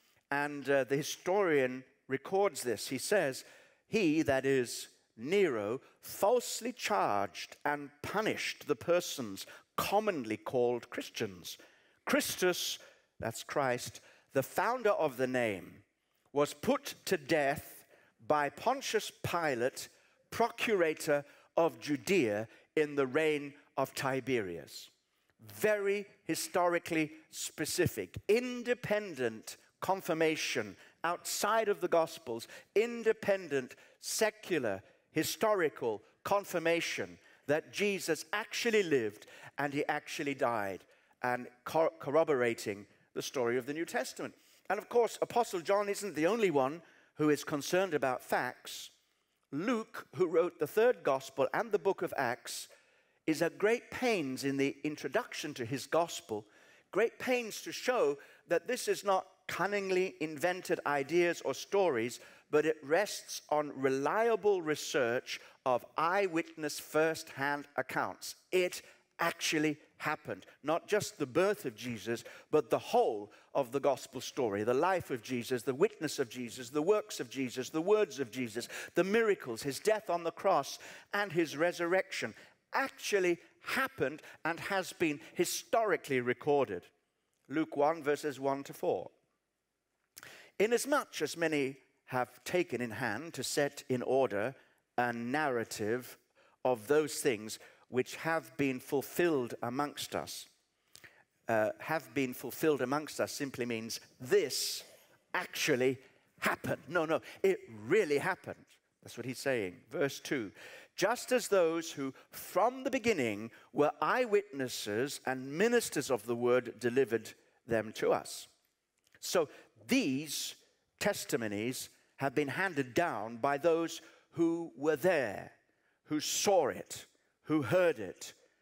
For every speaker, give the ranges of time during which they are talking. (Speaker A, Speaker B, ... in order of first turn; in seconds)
Speaker A: 0.3-48.9, 49.5-52.7, 53.3-86.9, 87.5-89.1, 90.6-100.5, 101.5-118.5, 119.2-125.5, 126.1-128.3